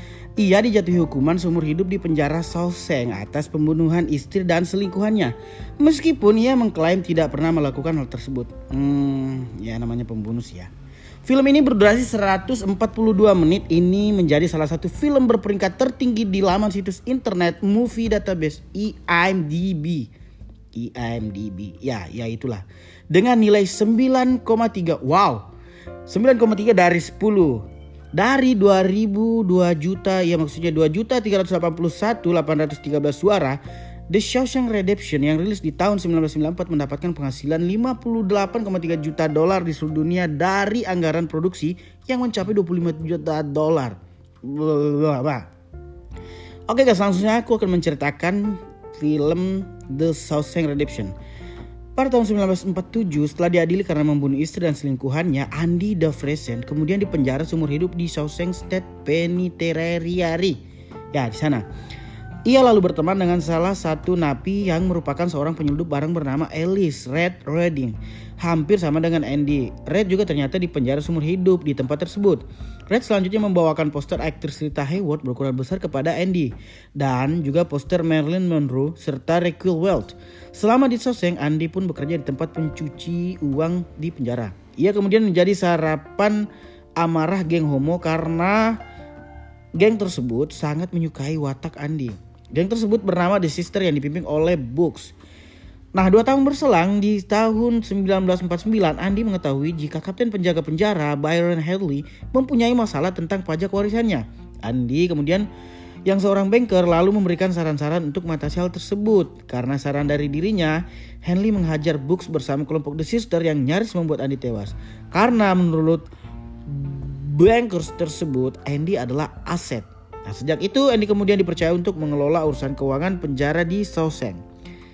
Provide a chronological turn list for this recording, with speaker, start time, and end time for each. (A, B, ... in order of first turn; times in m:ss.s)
0:00.4-0:10.7 A
0:11.2-0:20.1 A
0:20.7-0:25.5 A
0:26.1-0:33.6 A
0:34.1-0:45.4 A
0:46.7-0:51.1 A
0:52.0-1:00.6 A
1:01.1-1:01.6 A
1:02.4-1:26.5 A
1:27.0-1:28.8 A
1:29.7-1:35.1 A
1:35.9-1:45.5 A
1:46.0-1:56.0 A
1:56.7-2:04.4 A